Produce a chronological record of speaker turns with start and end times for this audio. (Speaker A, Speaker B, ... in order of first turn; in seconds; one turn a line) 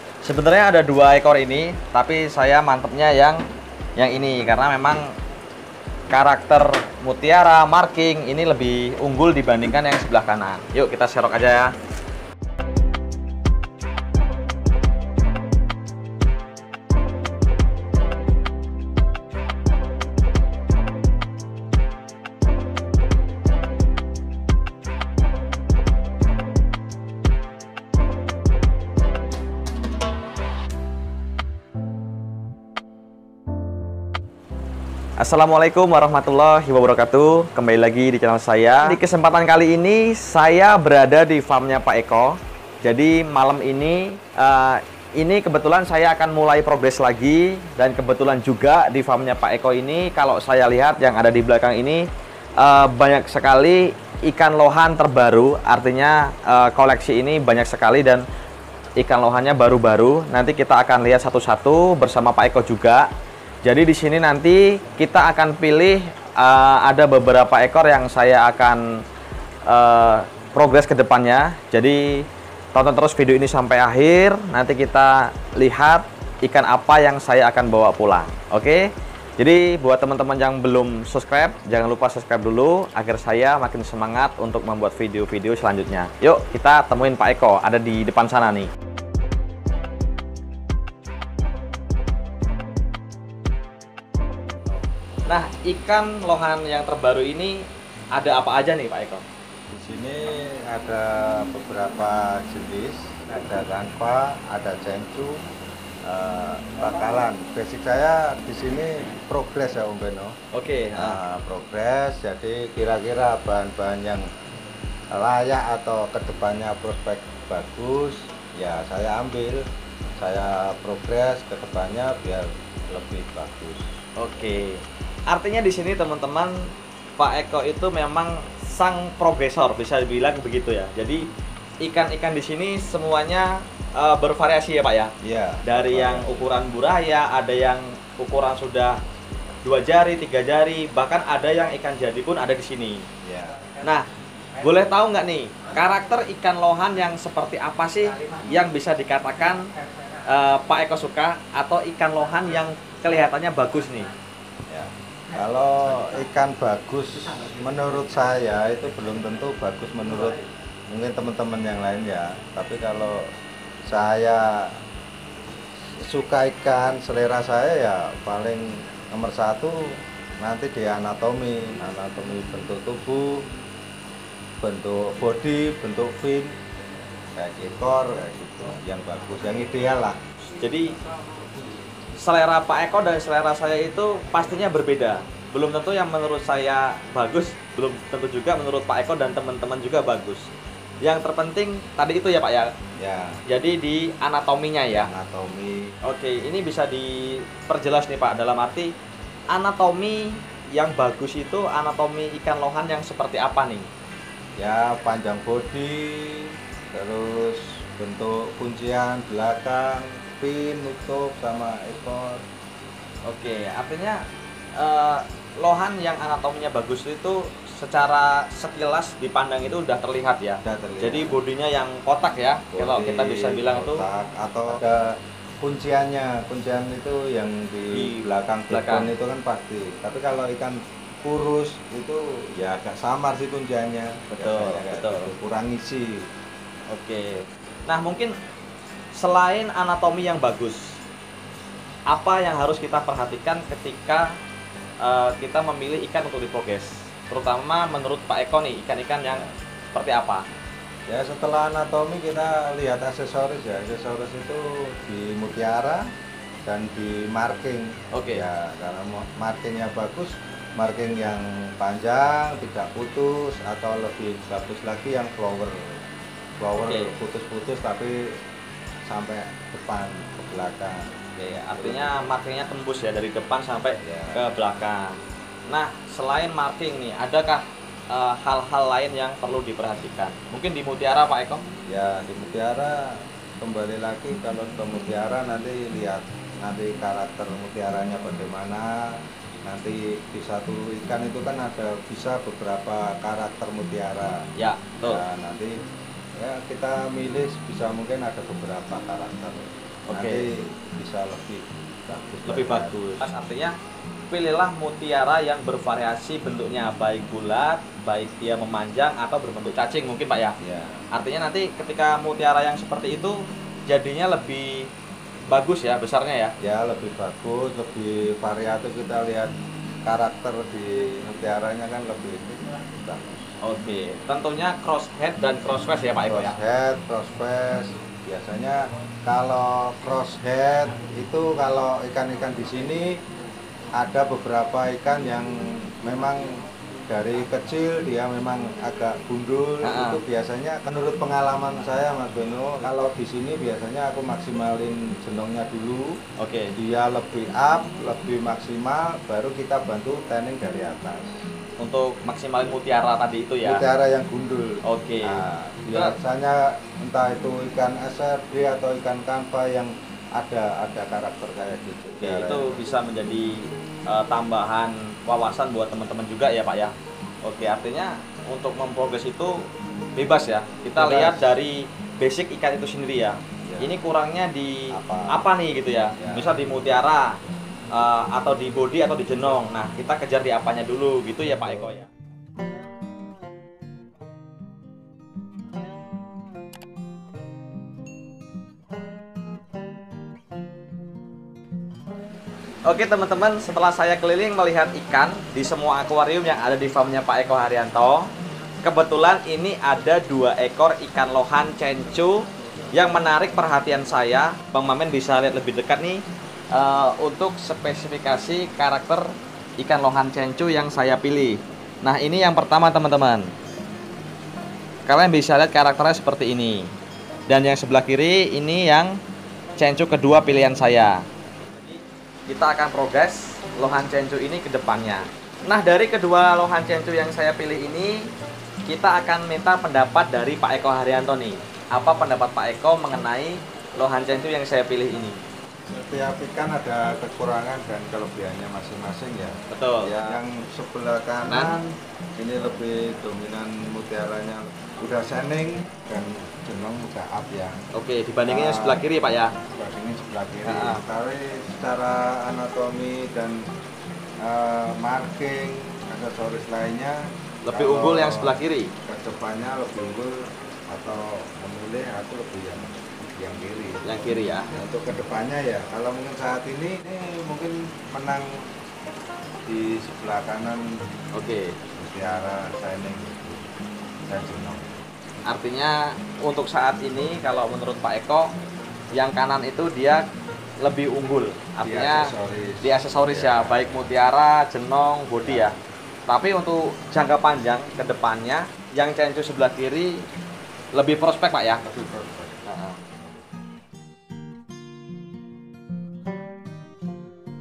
Speaker A: 0.2-3.4
Speaker A: 4.0-5.1
Speaker A: 6.1-11.7
Speaker A: 35.2-58.2
Speaker A: 59.0-63.1
Speaker A: 63.6-69.0
Speaker A: 69.7-88.7
Speaker A: 95.2-99.2
Speaker B: 99.7-105.3
Speaker B: 106.0-110.3
Speaker A: 110.5-111.2
Speaker B: 110.9-114.2
Speaker B: 115.1-119.6
Speaker B: 120.2-123.9
Speaker A: 124.2-131.2
Speaker A: 131.8-135.1
Speaker B: 135.2-136.4
Speaker A: 135.6-139.0
Speaker A: 139.6-143.1
Speaker B: 143.2-143.6
Speaker A: 143.8-144.1
Speaker A: 144.6-149.6
Speaker A: 150.2-154.1
Speaker B: 154.7-163.3
Speaker B: 163.9-164.8
Speaker B: 166.0-173.4
Speaker B: 174.6-176.5
Speaker B: 177.3-180.2
Speaker A: 180.6-180.9
Speaker A: 182.2-190.5
Speaker A: 191.0-192.7
Speaker B: 193.0-193.4
Speaker A: 193.4-195.1
Speaker B: 194.9-195.9
Speaker A: 196.0-198.9
Speaker A: 199.5-203.9
Speaker B: 204.6-212.4
Speaker A: 213.2-214.2
Speaker A: 214.8-224.0
Speaker B: 220.6-221.4
Speaker B: 222.7-236.2
Speaker A: 227.9-229.1
Speaker A: 234.4-235.3
Speaker A: 236.9-238.3
Speaker A: 239.1-241.0
Speaker A: 242.1-244.3
Speaker A: 245.0-249.4
Speaker B: 249.2-249.6
Speaker A: 249.9-250.4
Speaker B: 251.1-256.0
Speaker B: 256.6-265.8
Speaker A: 258.1-258.4
Speaker B: 266.6-268.2
Speaker A: 266.8-267.1
Speaker B: 269.1-271.1
Speaker A: 271.4-275.1
Speaker B: 271.7-272.3
Speaker B: 274.0-274.4
Speaker A: 275.7-281.6
Speaker B: 281.9-294.4
Speaker A: 294.6-295.2
Speaker B: 295.0-295.7
Speaker B: 296.4-303.3
Speaker A: 300.1-300.5
Speaker A: 302.4-303.8
Speaker A: 304.3-310.6
Speaker B: 310.6-311.0
Speaker A: 311.1-314.9
Speaker A: 315.5-316.5
Speaker B: 316.6-319.5
Speaker B: 320.0-323.5
Speaker A: 323.6-326.6
Speaker B: 326.2-333.2
Speaker B: 334.0-346.2
Speaker A: 339.8-340.2
Speaker A: 346.4-346.8
Speaker B: 346.8-351.3
Speaker A: 351.8-353.8
Speaker B: 353.6-362.8
Speaker A: 354.8-356.1
Speaker A: 362.2-377.4
Speaker B: 370.9-371.6
Speaker B: 373.6-374.0
Speaker B: 374.9-375.5
Speaker B: 376.2-376.5
Speaker A: 377.9-382.1
Speaker A: 392.8-398.3
Speaker A: 398.8-413.5
Speaker A: 415.1-416.9
Speaker A: 417.5-419.2
Speaker A: 419.8-428.3
Speaker A: 428.9-435.4
Speaker B: 435.9-447.8
Speaker A: 439.7-440.4
Speaker A: 441.4-441.8
Speaker A: 447.9-449.5
Speaker B: 448.4-449.1
Speaker B: 449.7-453.6
Speaker A: 450.7-451.0
Speaker B: 454.4-460.4
Speaker A: 457.6-458.9
Speaker B: 460.9-468.5
Speaker A: 464.0-464.7
Speaker B: 469.7-470.9
Speaker A: 471.3-471.8
Speaker B: 471.9-473.7
Speaker B: 474.3-475.0
Speaker A: 475.5-478.5
Speaker A: 479.1-480.2
Speaker A: 480.8-485.7
Speaker B: 481.8-484.1
Speaker B: 485.4-485.7
Speaker A: 486.3-490.2
Speaker A: 490.9-491.8
Speaker B: 491.8-493.4
Speaker A: 492.6-493.0